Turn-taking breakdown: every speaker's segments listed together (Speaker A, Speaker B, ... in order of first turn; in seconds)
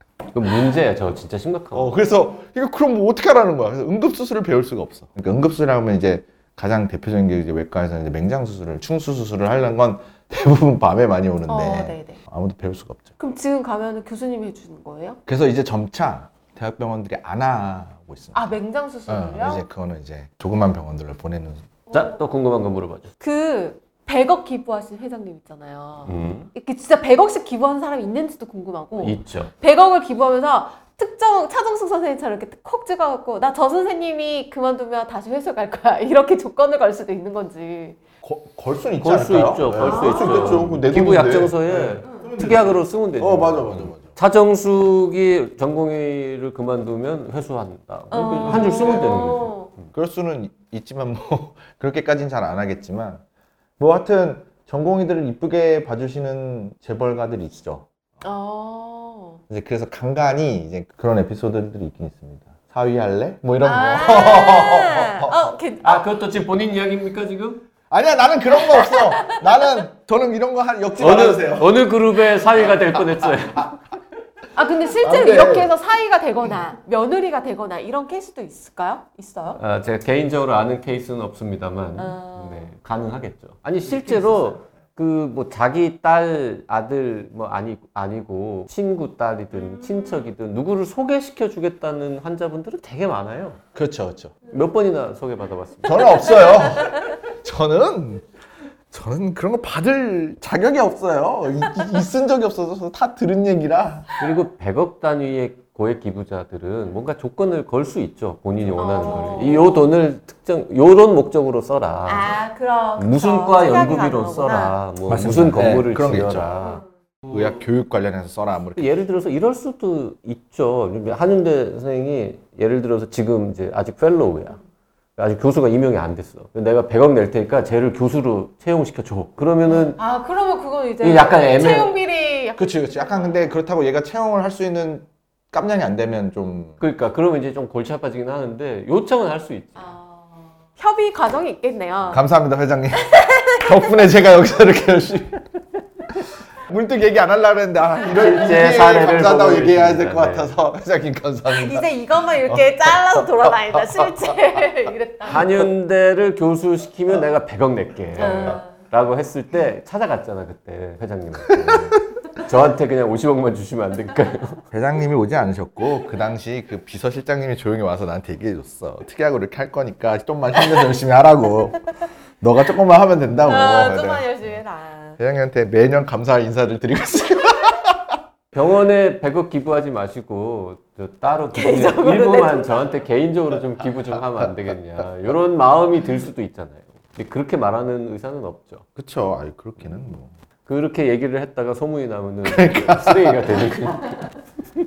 Speaker A: 0.3-1.9, 21.9-23.1, 26.0-26.5, 29.0-29.5, 39.0-49.9, 65.8-67.7, 71.0-73.7, 79.5-93.6, 94.5-96.4, 104.2-112.3, 113.0-117.5, 118.7-124.6, 125.2-130.0, 131.0-131.9, 136.8-139.8, 148.1-150.5, 155.2-164.6, 178.5-188.8, 190.6-194.3
Speaker B: 1.7-13.1, 15.3-18.5, 19.1-21.7, 38.2-44.1, 48.4-49.1, 49.9-53.2, 53.8-57.9, 59.5-65.5, 67.9-71.8, 72.5-73.7, 75.0-75.7, 93.7-94.4, 95.8-98.2, 98.9-104.1, 115.1-116.5, 117.3-119.0, 132.6-136.8, 142.1-145.4, 146.6-154.3, 158.2-158.6, 161.5-162.0, 164.7-174.5, 175.2-178.2, 189.0-190.3, 192.4-193.7
Speaker C: 11.5-12.2, 13.2-15.2, 18.3-19.7, 21.9-22.2, 23.2-38.0, 39.8-40.8, 48.1-49.7, 58.2-59.4, 63.6-66.1, 68.6-69.7, 74.5-79.6, 82.0-82.7, 96.2-97.2, 108.8-109.8, 112.0-114.8, 129.7-133.4, 139.8-142.2, 142.9-144.0, 148.0-148.6, 151.5-155.7, 158.2-158.7, 173.4-175.2, 181.5-182.8